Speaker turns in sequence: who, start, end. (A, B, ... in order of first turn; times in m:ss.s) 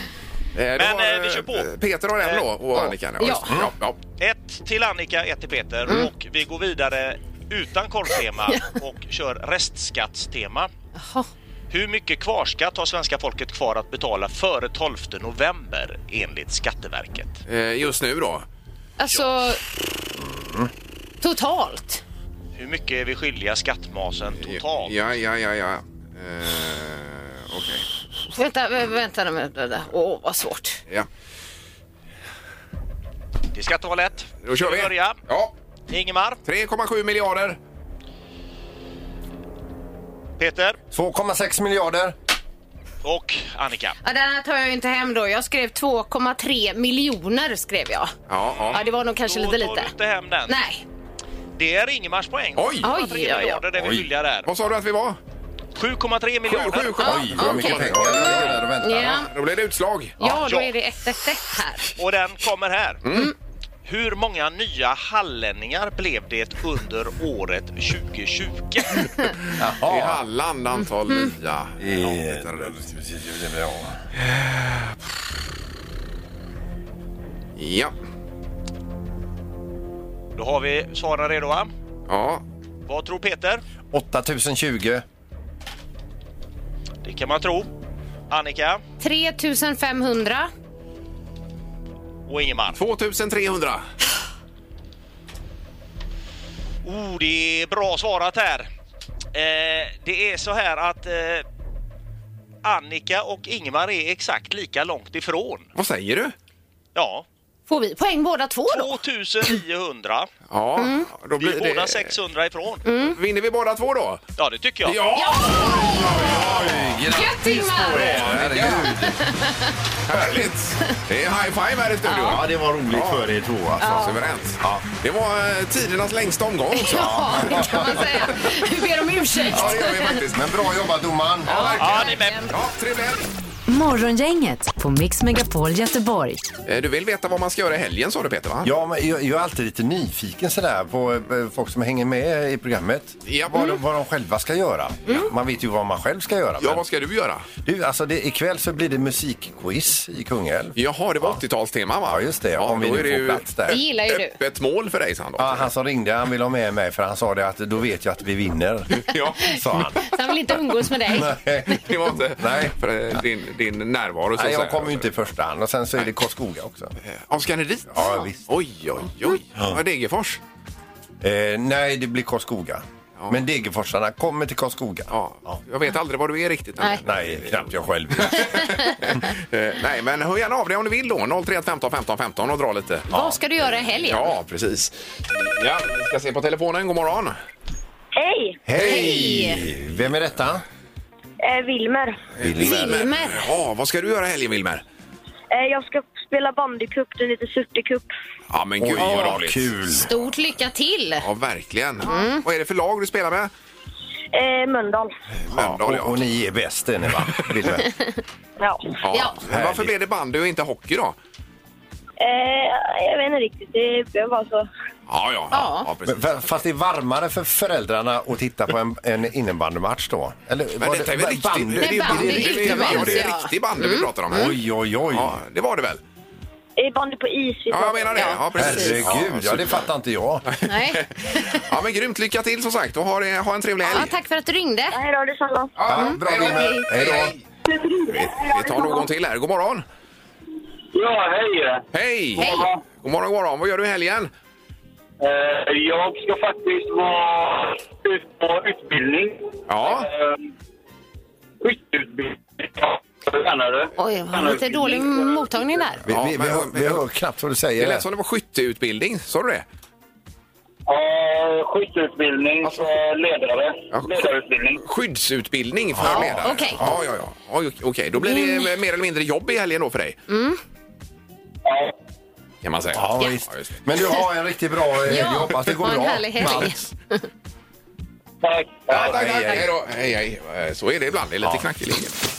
0:00.6-0:04.0 A
0:00.8-0:01.7 B
0:02.2-0:02.4 B
0:03.2-0:03.5 C
0:04.2-0:10.7 B
0:11.7-0:17.4 B
0:17.5-0:18.5 A
0:19.0-0:19.6 C
0:20.2-0:20.7 D
0:21.2-0:22.0 C
0:22.6-0:25.0 B
0:24.4-0:27.9 A
0:28.3-0:30.8 C
0:33.5-0:35.2 B
0:34.4-0:35.5 A
0:35.9-0:36.4 B
0:36.4-0:37.6 A
0:40.4-0:40.8 B
0:40.9-0:42.2 D
0:43.0-0:44.0 B
0:44.0-0:48.1 C
0:48.3-0:48.8 A
0:48.7-0:50.6 B
0:48.7-0:49.9 C
0:50.5-0:50.8 C
0:51.6-0:54.5 B
0:52.6-0:52.9 A
0:52.8-0:53.6 C
0:54.5-0:55.2 A
0:55.8-0:57.1 B
0:56.5-1:00.4 A
0:57.0-0:59.2 D
0:57.0-0:59.3 C
1:00.2-1:01.9 C
1:02.0-1:03.0 B
1:03.0-1:03.3 A
1:03.9-1:09.1 B
1:09.6-1:10.2 D
1:09.8-1:12.8 A
1:11.8-1:14.0 D
1:14.2-1:15.0 A
1:17.6-1:18.0 A
1:20.4-1:21.7 B
1:22.1-1:22.4 A
1:22.9-1:23.6 B
1:23.9-1:25.0 D
1:27.0-1:27.7 B
1:28.3-1:28.8 B
1:29.0-1:30.5 C
1:32.3-1:32.8 B
1:32.8-1:33.8 A
1:36.8-1:38.7 B
1:39.3-1:41.4 B
1:42.6-1:45.7 B
1:45.8-1:46.4 A
1:47.0-1:47.3 B
1:47.7-1:49.0 C
1:48.7-1:50.3 B
1:50.5-1:52.2 A
1:50.8-1:51.1 C
1:51.4-1:52.9 B
1:52.8-1:53.2 C
1:53.0-1:54.3 A
1:54.4-1:55.1 B
1:54.8-1:57.1 A
1:55.1-1:56.4 C
1:55.9-1:59.2 D
1:57.1-1:59.8 C
1:57.9-1:59.0 A
2:00.1-2:03.2 A
2:02.1-2:04.1 D
2:03.8-2:04.2 C
2:03.8-2:07.6 A
2:04.6-2:04.9 D
2:06.7-2:10.2 C
2:06.9-2:08.2 D
2:09.4-2:10.6 A
2:10.3-2:11.8 D
2:11.5-2:12.5 C
2:11.5-2:13.3 A
2:11.8-2:12.4 B
2:13.7-2:16.5 E
2:16.7-2:18.7 A
2:18.6-2:26.8 D
2:23.3-2:23.7 A
2:26.6-2:27.5 A
2:27.6-2:31.4 D
2:30.8-2:35.7 A
2:32.1-2:33.8 D
2:33.7-2:34.4 C
2:35.4-2:40.0 D
2:38.9-2:40.1 A
2:40.0-2:41.4 C
2:41.1-2:42.8 D
2:41.7-2:45.1 A
2:44.4-2:46.9 D
2:47.0-2:50.4 A
2:47.9-2:48.4 D
2:51.2-2:55.6 D
2:55.1-3:03.1 A
2:57.0-2:58.6 D
2:58.5-2:59.0 C
3:03.1-3:04.3 C
3:04.0-3:07.4 A
3:08.2-3:08.6 F
3:08.7-3:10.6 D
3:08.8-3:09.6 C
3:11.4-3:12.2 F
3:12.4-3:14.8 A
3:12.4-3:13.1 D
3:12.6-3:13.5 C
3:15.5-3:18.1 F
3:18.5-3:19.7 A
3:18.8-3:20.1 D
3:19.9-3:21.2 C
3:21.2-3:23.5 A
3:22.0-3:22.4 C
3:24.3-3:25.1 F
3:25.5-3:26.2 A
3:25.5-3:27.9 D
3:28.6-3:29.0 F
3:29.0-3:31.2 A
3:29.1-3:29.4 C
3:29.4-3:29.9 D
3:32.2-3:34.7 F
3:35.1-3:36.5 A
3:35.5-3:35.9 C
3:36.1-3:43.3 D
3:40.8-3:44.6 A
3:41.8-3:44.5 C
3:44.3-3:45.4 D
3:45.1-3:46.0 A
3:46.8-3:48.4 F
3:47.7-3:49.9 A
3:48.2-3:49.0 C
3:48.5-3:50.5 D
3:50.5-3:54.1 A
3:50.6-3:51.6 C
3:53.8-3:55.0 C
3:54.9-3:55.7 F
3:55.8-3:57.4 A
3:55.8-3:57.4 D
3:55.9-3:56.9 C
3:57.7-3:59.1 F
3:58.0-3:59.8 A
4:00.9-4:01.8 G
4:01.9-4:04.3 A
4:02.4-4:02.8 G
4:02.4-4:02.7 C
4:05.2-4:10.4 G
4:09.7-4:10.1 A
4:11.6-4:15.4 G
4:14.0-4:16.0 C
4:16.1-4:18.0 D
4:16.1-4:17.0 A
4:17.8-4:19.6 A
4:20.9-4:24.8 G
4:22.6-4:22.9 A
4:23.9-4:24.3 A
4:24.8-4:30.2 A
4:26.0-4:26.9 D
4:26.0-4:26.9 C
4:28.2-4:28.7 C
4:30.3-4:30.6 C
4:31.7-4:31.9 G
4:32.6-4:33.8 A
4:32.9-4:36.9 D
4:35.1-4:36.8 C
4:38.4-4:39.2 G
4:38.9-4:42.2 A
4:39.0-4:39.7 D